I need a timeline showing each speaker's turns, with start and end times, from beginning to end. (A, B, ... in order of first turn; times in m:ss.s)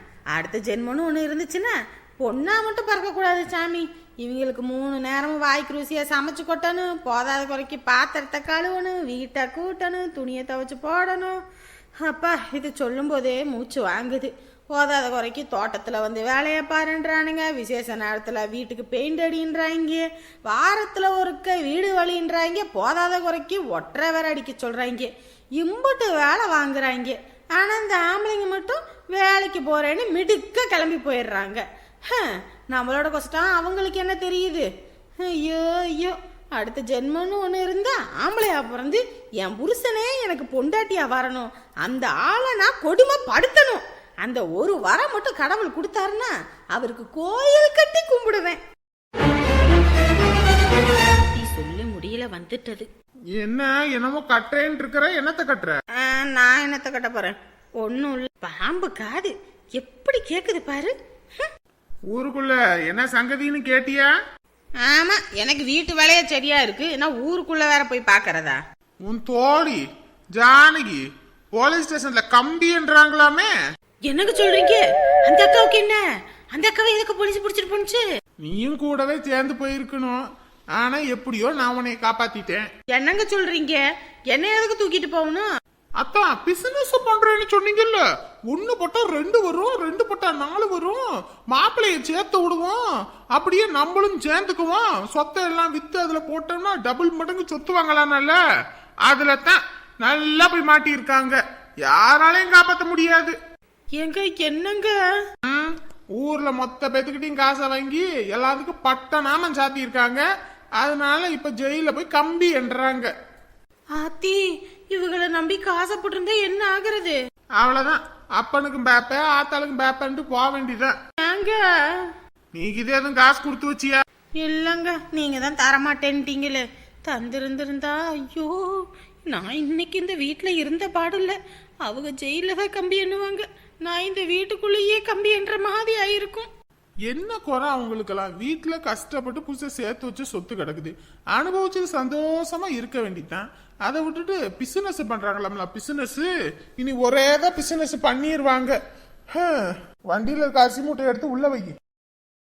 0:00.3-0:11.4 A
0:12.0-0:34.7 A
0:35.2-0:48.6 A
0:51.2-0:52.9 A
0:53.3-0:55.8 B
0:56.0-1:01.5 A
1:02.1-1:04.2 B
1:04.8-1:08.6 A
1:09.0-1:13.5 B
1:14.0-1:18.0 A
1:18.4-1:22.7 B
1:22.9-1:25.5 A
1:26.0-1:38.4 B
1:39.0-1:43.4 B
1:43.9-1:45.0 A
1:45.4-1:50.2 B
1:50.8-1:53.1 B
1:53.9-1:57.2 A
1:57.6-2:01.0 B
2:01.2-2:02.1 A
2:02.5-2:04.0 B
2:04.4-2:16.5 A
2:17.1-2:31.8 B